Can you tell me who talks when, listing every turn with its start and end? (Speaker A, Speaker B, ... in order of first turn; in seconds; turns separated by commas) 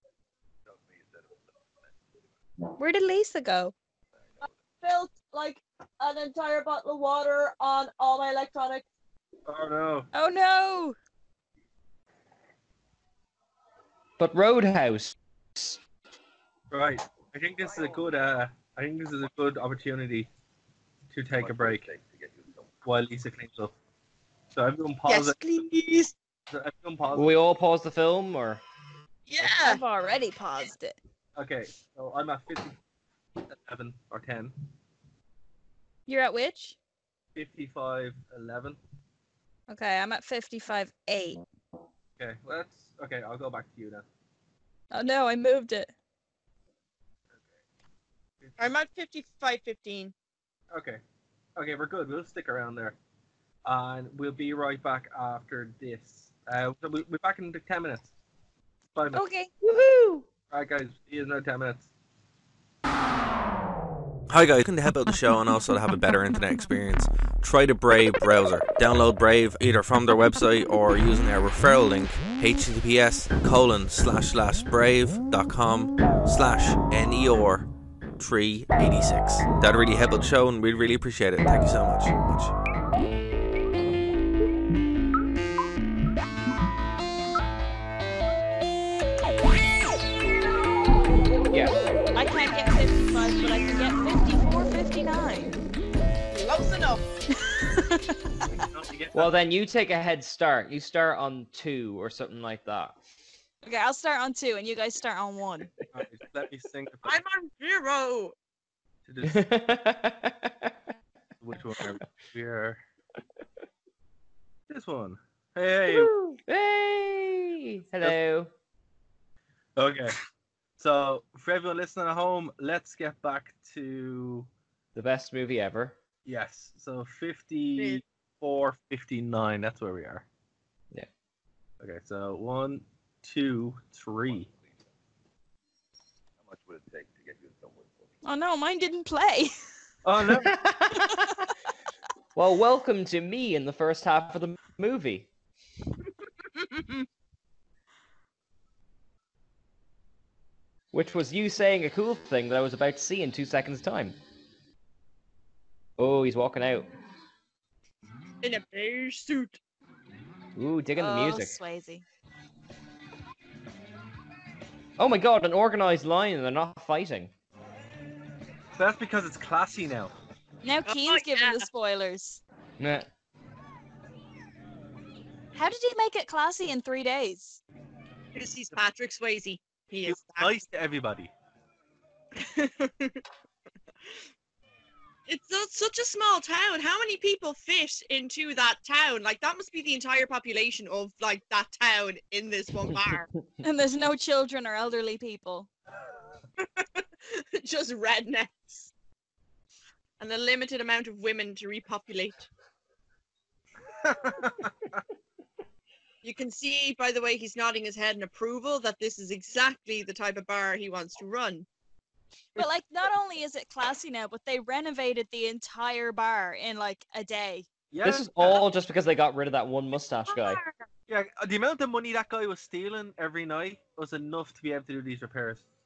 Speaker A: 0.7-1.9, Speaker B: 2.8-3.7, Speaker A: 4.2-4.5, Speaker C: 4.4-8.9, Speaker D: 9.5-10.1, Speaker B: 10.1-11.0, Speaker E: 14.2-15.8, Speaker D: 16.7-20.3, Speaker D: 21.1-21.9, Speaker A: 21.4-22.7, Speaker D: 22.9-23.7, Speaker D: 24.5-25.4, Speaker C: 25.1-26.1, Speaker D: 26.5-27.3, Speaker E: 27.1-28.6, Speaker C: 29.3-29.8, Speaker B: 29.6-31.0, Speaker D: 31.4-32.8, Speaker D: 33.5-34.6, Speaker B: 36.1-36.8, Speaker D: 37.4-38.8, Speaker B: 39.7-41.4, Speaker D: 42.2-44.0, Speaker B: 44.9-45.9, Speaker C: 48.6-50.1, Speaker D: 50.7-51.0, Speaker D: 51.6-53.0, Speaker D: 53.6-58.1, Speaker D: 59.0-59.2, Speaker B: 59.1-59.5, Speaker E: 59.6-60.1, Speaker D: 60.5-61.9, Speaker F: 64.3-82.5, Speaker E: 91.5-91.8, Speaker B: 92.2-95.6, Speaker C: 96.3-97.0, Speaker B: 97.5-98.2, Speaker D: 98.5-99.3, Speaker E: 99.1-103.0, Speaker B: 103.6-105.7, Speaker D: 105.9-107.2, Speaker C: 107.0-108.3, Speaker D: 109.1-109.5, Speaker E: 109.2-110.7, Speaker D: 111.4-112.8, Speaker D: 114.7-116.1, Speaker E: 115.9-118.5, Speaker D: 119.8-120.2, Speaker D: 120.8-124.5, Speaker E: 125.0-126.0, Speaker D: 126.2-130.2, Speaker C: 127.8-128.0, Speaker D: 131.8-134.5, Speaker A: 134.3-134.8, Speaker A: 136.4-138.1, Speaker B: 138.2-139.5, Speaker D: 140.0-140.5, Speaker E: 140.4-141.1, Speaker E: 142.3-145.3, Speaker C: 146.6-146.9, Speaker E: 150.9-154.2, Speaker E: 156.0-156.9, Speaker C: 158.4-159.6, Speaker E: 160.6-161.6, Speaker B: 161.0-162.0, Speaker E: 165.0-167.3, Speaker D: 168.8-170.1, Speaker B: 170.6-172.4, Speaker C: 170.9-171.7, Speaker E: 172.8-173.1, Speaker B: 175.5-177.6, Speaker C: 178.3-180.6, Speaker D: 180.1-181.3, Speaker C: 182.3-183.2, Speaker C: 185.3-193.3, Speaker B: 193.6-195.7, Speaker C: 196.6-198.9, Speaker C: 200.2-202.4, Speaker D: 204.0-204.7, Speaker C: 206.2-211.7, Speaker B: 212.6-217.7, Speaker D: 217.9-218.7, Speaker E: 218.0-220.6, Speaker C: 220.3-220.9, Speaker D: 221.1-225.7